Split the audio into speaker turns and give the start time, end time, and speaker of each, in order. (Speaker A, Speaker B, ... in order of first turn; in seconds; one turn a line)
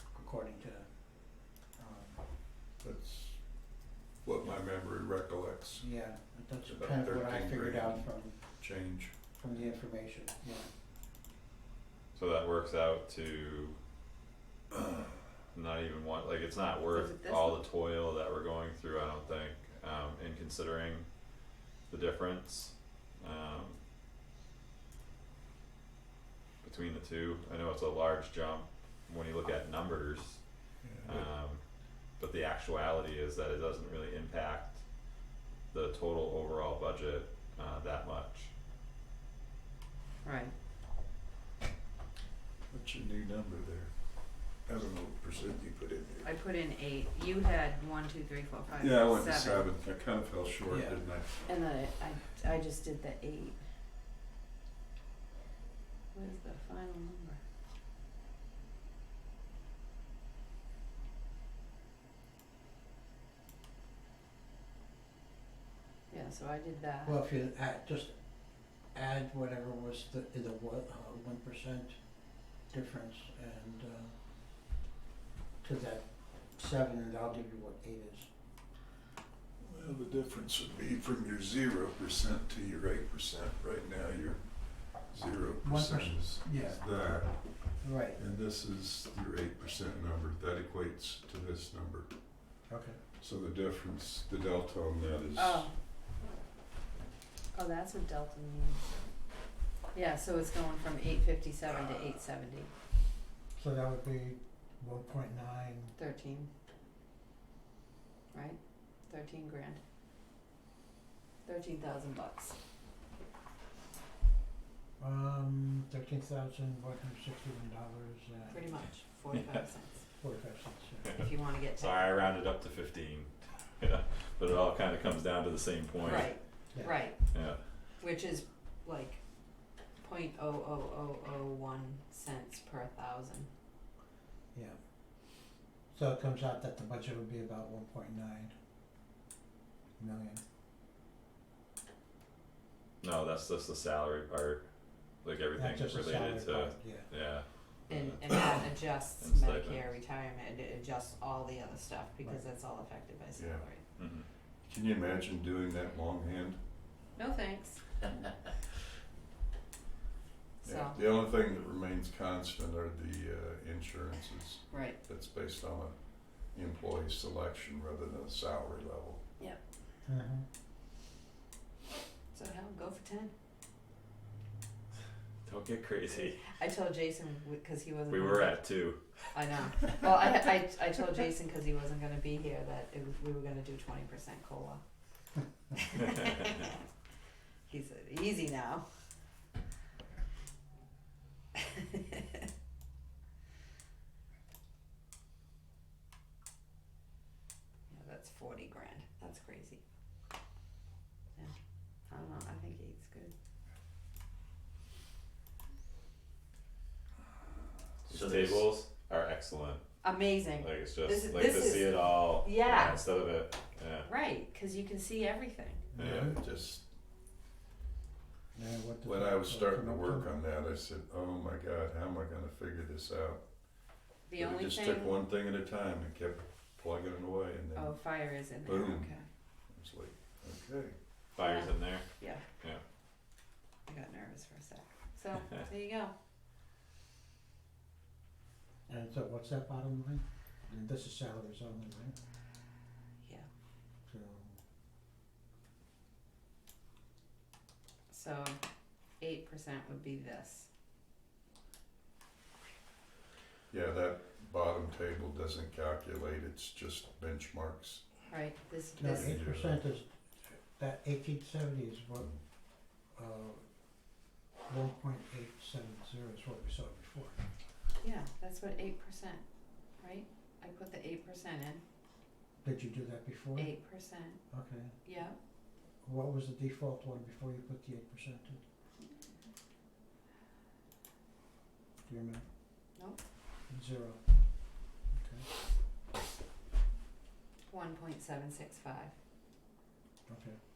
Speaker A: 0.1-2.2
Speaker B: 2.8-3.4
Speaker B: 4.2-5.9
Speaker A: 5.8-8.4
Speaker B: 6.7-9.1
Speaker A: 9.4-10.7
Speaker C: 12.2-13.8
Speaker C: 15.5-21.1
Speaker D: 16.9-17.6
Speaker C: 21.9-23.8
Speaker C: 26.6-30.4
Speaker B: 30.8-31.3
Speaker C: 31.0-31.6
Speaker C: 32.2-34.8
Speaker C: 35.7-38.5
Speaker D: 40.2-40.5
Speaker B: 42.7-46.3
Speaker D: 46.2-49.7
Speaker B: 48.8-51.5
Speaker A: 50.7-51.0
Speaker D: 51.5-53.6
Speaker D: 56.1-57.4
Speaker D: 66.1-67.2
Speaker A: 67.0-72.0
Speaker A: 72.7-74.2
Speaker A: 75.6-78.3
Speaker B: 79.6-92.7
Speaker A: 85.6-86.8
Speaker A: 87.8-88.2
Speaker A: 92.7-93.0
Speaker B: 93.2-95.7
Speaker D: 95.4-95.8
Speaker D: 97.5-99.0
Speaker D: 99.9-102.7
Speaker A: 103.5-106.0
Speaker D: 106.0-106.5
Speaker D: 108.3-109.8
Speaker D: 111.5-112.6
Speaker A: 115.0-118.8
Speaker D: 118.5-120.0
Speaker C: 119.3-119.6
Speaker A: 120.2-121.1
Speaker C: 121.0-126.3
Speaker D: 121.1-122.3
Speaker D: 126.0-127.3
Speaker C: 127.3-127.6
Speaker D: 128.0-129.2
Speaker D: 130.0-133.5
Speaker A: 135.9-138.5
Speaker A: 140.0-140.4
Speaker C: 143.0-144.6
Speaker C: 145.2-149.8
Speaker A: 145.6-147.1
Speaker D: 147.9-153.9
Speaker B: 153.4-153.7
Speaker C: 154.0-154.3
Speaker B: 154.6-156.6
Speaker D: 157.2-158.0
Speaker D: 160.6-161.0
Speaker B: 160.7-169.2
Speaker D: 164.7-165.0
Speaker A: 170.1-170.5
Speaker D: 172.3-173.3
Speaker C: 175.4-176.6
Speaker D: 176.5-178.7
Speaker C: 178.1-179.2
Speaker D: 179.3-184.8
Speaker D: 185.7-186.8
Speaker D: 187.7-188.8
Speaker D: 191.6-192.5
Speaker D: 197.9-199.8
Speaker D: 202.1-203.3
Speaker C: 208.1-214.1
Speaker D: 210.0-213.0
Speaker D: 214.0-215.9
Speaker A: 215.9-216.4
Speaker B: 216.0-216.8
Speaker A: 218.6-220.3
Speaker B: 219.1-223.4
Speaker D: 224.3-225.2
Speaker B: 224.4-229.2
Speaker D: 227.8-229.3
Speaker B: 229.7-230.9
Speaker C: 231.3-232.8
Speaker D: 231.4-232.5
Speaker D: 233.9-236.1
Speaker A: 238.9-242.2
Speaker A: 244.1-244.6
Speaker D: 248.1-248.6
Speaker D: 249.2-250.7
Speaker B: 253.7-258.1
Speaker D: 258.3-259.4
Speaker A: 259.0-262.4
Speaker B: 259.1-259.8
Speaker A: 263.1-263.7
Speaker A: 264.7-267.4
Speaker D: 268.0-269.4
Speaker D: 270.0-271.8
Speaker A: 272.6-273.7
Speaker D: 273.6-274.4
Speaker A: 274.5-275.0
Speaker D: 275.0-275.4
Speaker A: 276.0-278.6
Speaker A: 282.1-282.4
Speaker D: 283.0-283.2
Speaker A: 283.7-284.2
Speaker A: 285.1-285.5
Speaker D: 287.7-289.1
Speaker A: 290.3-290.6